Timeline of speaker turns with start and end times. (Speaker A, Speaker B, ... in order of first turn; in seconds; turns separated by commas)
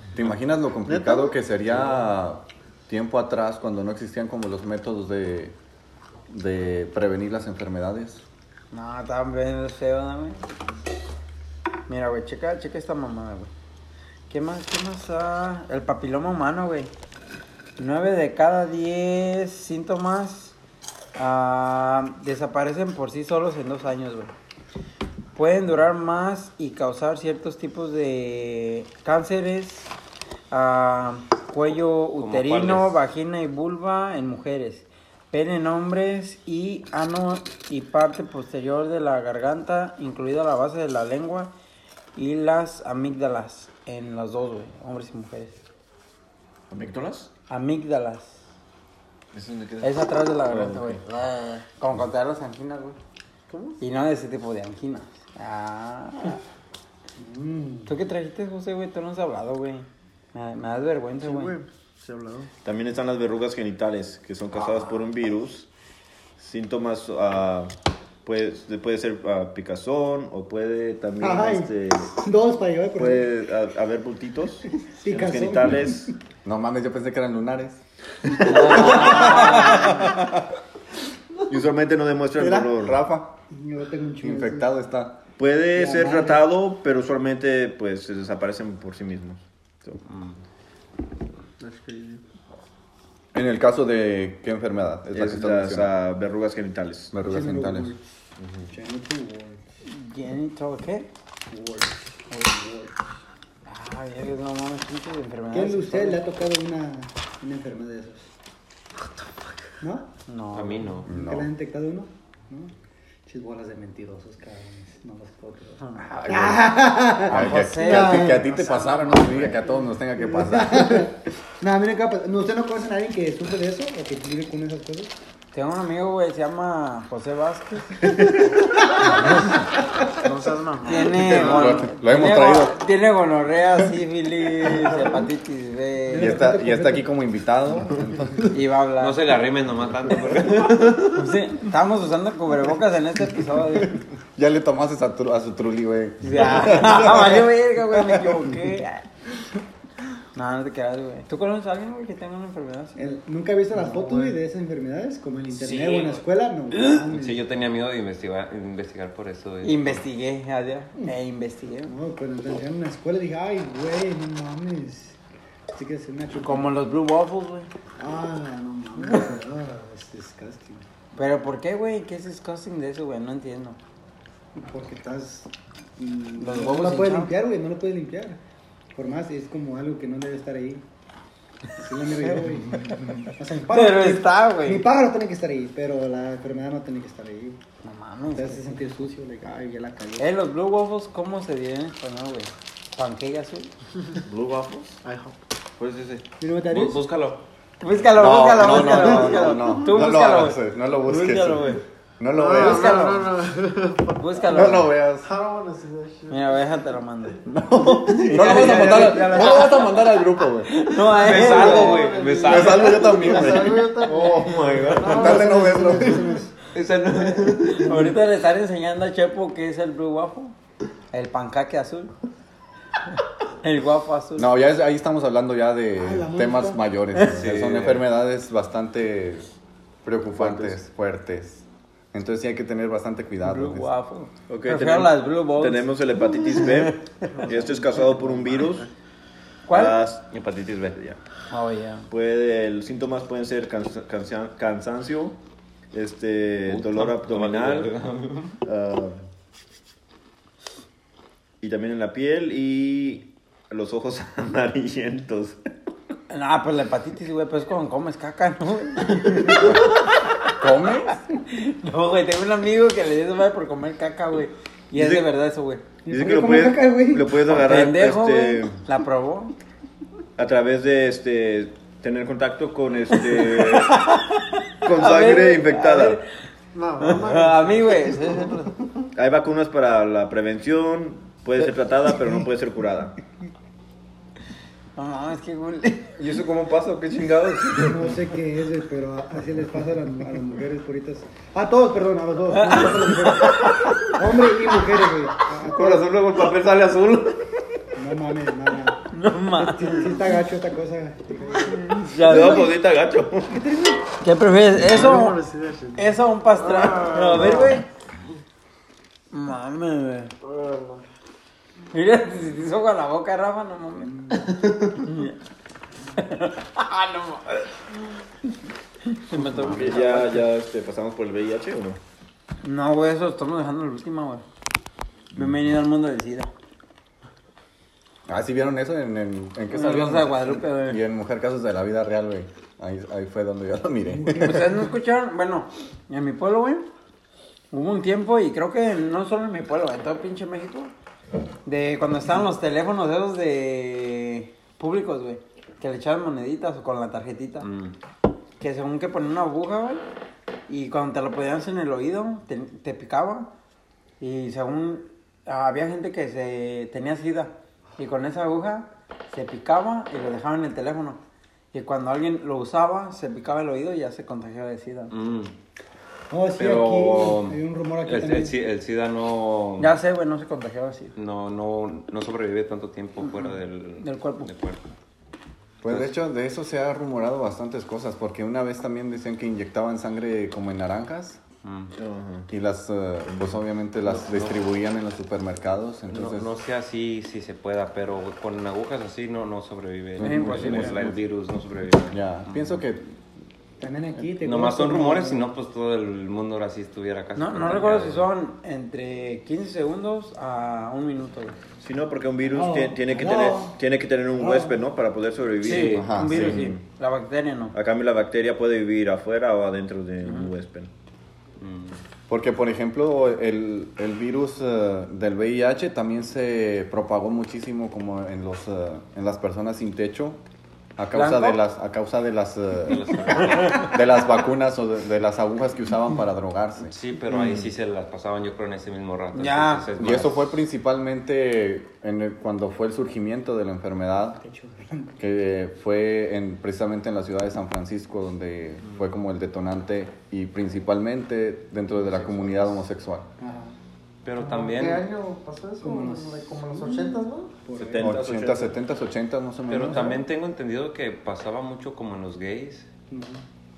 Speaker A: 0.2-5.5, Speaker B: 0.8-1.4, Speaker A: 6.3-8.2, Speaker C: 8.7-10.4, Speaker C: 11.9-13.5, Speaker C: 14.3-16.9, Speaker C: 17.8-20.6, Speaker C: 21.2-24.3, Speaker C: 25.4-29.9, Speaker C: 30.5-41.5, Speaker D: 32.2-32.9, Speaker C: 42.2-45.6, Speaker E: 46.7-47.3, Speaker C: 47.5-48.4, Speaker E: 49.3-51.0, Speaker C: 49.8-53.0, Speaker B: 53.5-53.8, Speaker C: 53.8-56.4, Speaker F: 57.2-57.9, Speaker C: 57.9-61.5, Speaker B: 61.2-62.5, Speaker E: 62.6-65.7, Speaker E: 66.4-72.2, Speaker F: 71.2-73.3, Speaker E: 73.0-76.2, Speaker F: 74.8-76.1, Speaker A: 76.5-77.8, Speaker A: 78.4-80.5, Speaker E: 78.5-79.3, Speaker F: 78.7-79.8, Speaker C: 78.7-79.9, Speaker E: 81.5-83.0, Speaker A: 82.4-83.4, Speaker F: 83.5-84.7, Speaker A: 84.2-85.2, Speaker E: 85.4-90.0, Speaker F: 85.8-86.5, Speaker D: 90.1-90.4, Speaker B: 91.6-92.2, Speaker A: 93.3-95.9, Speaker E: 95.1-97.1, Speaker A: 97.1-97.9, Speaker F: 97.2-98.0, Speaker E: 98.4-98.7, Speaker F: 98.7-99.6, Speaker C: 99.8-101.1, Speaker F: 101.5-102.9, Speaker C: 103.7-106.2, Speaker F: 105.5-108.3, Speaker F: 109.8-110.1, Speaker C: 110.3-111.0, Speaker D: 110.5-111.1, Speaker A: 111.1-111.5, Speaker F: 111.1-112.7, Speaker F: 113.3-125.1, Speaker B: 115.8-116.1, Speaker A: 116.0-121.1, Speaker C: 117.3-119.4, Speaker C: 125.5-128.1, Speaker C: 129.1-129.6, Speaker B: 130.1-131.5, Speaker C: 130.8-136.4, Speaker A: 131.1-132.8, Speaker F: 136.1-137.1, Speaker A: 136.2-138.6, Speaker C: 138.5-139.2, Speaker D: 139.0-141.1, Speaker C: 141.1-144.0, Speaker A: 144.4-148.4, Speaker C: 146.2-149.1, Speaker C: 150.3-153.2, Speaker F: 153.0-157.4, Speaker B: 153.8-154.4, Speaker D: 155.5-156.2, Speaker D: 157.1-160.0, Speaker C: 159.6-161.9, Speaker F: 161.9-165.2, Speaker F: 165.7-166.7, Speaker C: 166.3-167.7, Speaker F: 168.0-170.9, Speaker C: 171.2-173.8, Speaker F: 174.6-178.4, Speaker C: 176.4-177.3, Speaker F: 178.9-180.8, Speaker F: 181.7-187.6, Speaker C: 182.2-184.8, Speaker C: 187.8-188.7, Speaker F: 188.4-190.3, Speaker C: 190.2-193.7, Speaker E: 194.3-195.0, Speaker B: 195.0-195.4, Speaker D: 195.8-197.4, Speaker F: 196.4-197.0, Speaker C: 197.8-200.6, Speaker A: 198.2-203.2, Speaker D: 201.1-201.8, Speaker B: 202.3-206.6, Speaker F: 202.6-203.2, Speaker C: 204.2-204.9, Speaker A: 204.5-205.3, Speaker C: 206.3-207.4, Speaker A: 207.5-210.7, Speaker B: 208.1-210.0, Speaker D: 208.3-209.6, Speaker C: 210.7-212.2, Speaker D: 210.9-213.3, Speaker B: 211.2-216.3, Speaker A: 212.4-216.4, Speaker F: 213.3-214.4, Speaker E: 214.1-215.2, Speaker F: 215.0-216.5, Speaker D: 216.7-217.9, Speaker C: 217.3-220.6, Speaker F: 217.8-218.1, Speaker C: 221.1-222.1, Speaker C: 223.6-224.5, Speaker A: 224.4-229.5, Speaker F: 226.0-226.8, Speaker D: 227.2-228.0, Speaker A: 230.0-233.9, Speaker E: 230.4-230.8, Speaker C: 233.4-236.4, Speaker E: 234.5-238.9, Speaker B: 237.3-238.9, Speaker C: 239.7-240.0, Speaker E: 239.7-241.2, Speaker C: 241.5-242.1, Speaker E: 242.1-245.4, Speaker E: 245.9-248.0, Speaker D: 246.7-248.6, Speaker E: 248.6-249.2, Speaker E: 251.6-255.6, Speaker C: 256.3-259.8, Speaker A: 259.5-259.8, Speaker C: 260.6-265.8, Speaker A: 260.6-261.1, Speaker E: 264.9-265.3, Speaker F: 266.1-267.4, Speaker E: 266.1-268.8, Speaker C: 267.5-269.5, Speaker E: 270.4-274.1, Speaker C: 273.5-276.2, Speaker E: 274.8-276.2, Speaker B: 276.7-278.7, Speaker C: 277.0-278.7, Speaker E: 279.1-283.1, Speaker C: 285.0-286.2, Speaker E: 286.2-288.0, Speaker F: 287.8-296.1, Speaker C: 292.5-294.0, Speaker E: 295.5-297.6, Speaker F: 297.9-302.4, Speaker C: 299.1-300.2, Speaker B: 301.6-302.1, Speaker C: 301.9-302.8, Speaker E: 302.2-304.0, Speaker C: 304.2-305.4, Speaker B: 304.8-307.8, Speaker C: 305.9-307.9, Speaker C: 309.3-310.3, Speaker B: 310.4-311.0, Speaker C: 311.9-314.4, Speaker C: 315.0-315.4, Speaker C: 316.1-317.6, Speaker C: 319.1-320.4, Speaker E: 319.6-322.0, Speaker C: 322.6-324.4, Speaker C: 325.3-326.5, Speaker A: 328.3-334.8, Speaker C: 329.7-331.0, Speaker C: 334.3-336.9, Speaker C: 337.7-340.9, Speaker C: 341.6-347.7, Speaker D: 347.6-347.9, Speaker C: 348.6-350.0, Speaker C: 350.7-353.5, Speaker C: 354.2-361.2, Speaker C: 361.7-365.1, Speaker D: 365.1-365.5, Speaker F: 366.3-368.6, Speaker D: 366.6-369.9, Speaker C: 369.8-371.1, Speaker D: 371.2-374.9, Speaker C: 373.2-374.5, Speaker A: 375.8-381.4, Speaker D: 375.9-376.1, Speaker D: 381.6-381.9, Speaker E: 382.0-382.5, Speaker A: 382.5-386.5, Speaker D: 384.1-384.6, Speaker D: 386.1-392.8, Speaker A: 390.2-391.2, Speaker C: 390.2-391.0, Speaker A: 392.1-393.2, Speaker F: 393.8-395.5, Speaker D: 394.4-398.3, Speaker C: 397.4-401.6, Speaker E: 401.8-406.8, Speaker F: 402.5-403.8, Speaker F: 404.4-404.8, Speaker D: 405.6-406.1, Speaker C: 405.7-407.8, Speaker A: 405.9-406.7, Speaker E: 407.7-410.9, Speaker C: 410.2-410.5, Speaker D: 411.6-412.0, Speaker A: 412.3-420.4, Speaker A: 421.0-426.9, Speaker C: 421.1-421.6, Speaker D: 422.9-424.0, Speaker D: 426.9-430.5, Speaker E: 427.3-427.6, Speaker C: 429.4-429.9, Speaker A: 430.0-434.4, Speaker F: 434.3-435.1, Speaker A: 435.2-443.3, Speaker D: 438.8-439.1, Speaker E: 442.4-442.6, Speaker F: 443.4-443.8, Speaker D: 444.2-445.1, Speaker B: 444.4-447.6, Speaker F: 445.8-448.1, Speaker E: 447.7-448.8, Speaker A: 448.0-450.2, Speaker D: 449.7-452.9, Speaker F: 453.1-453.4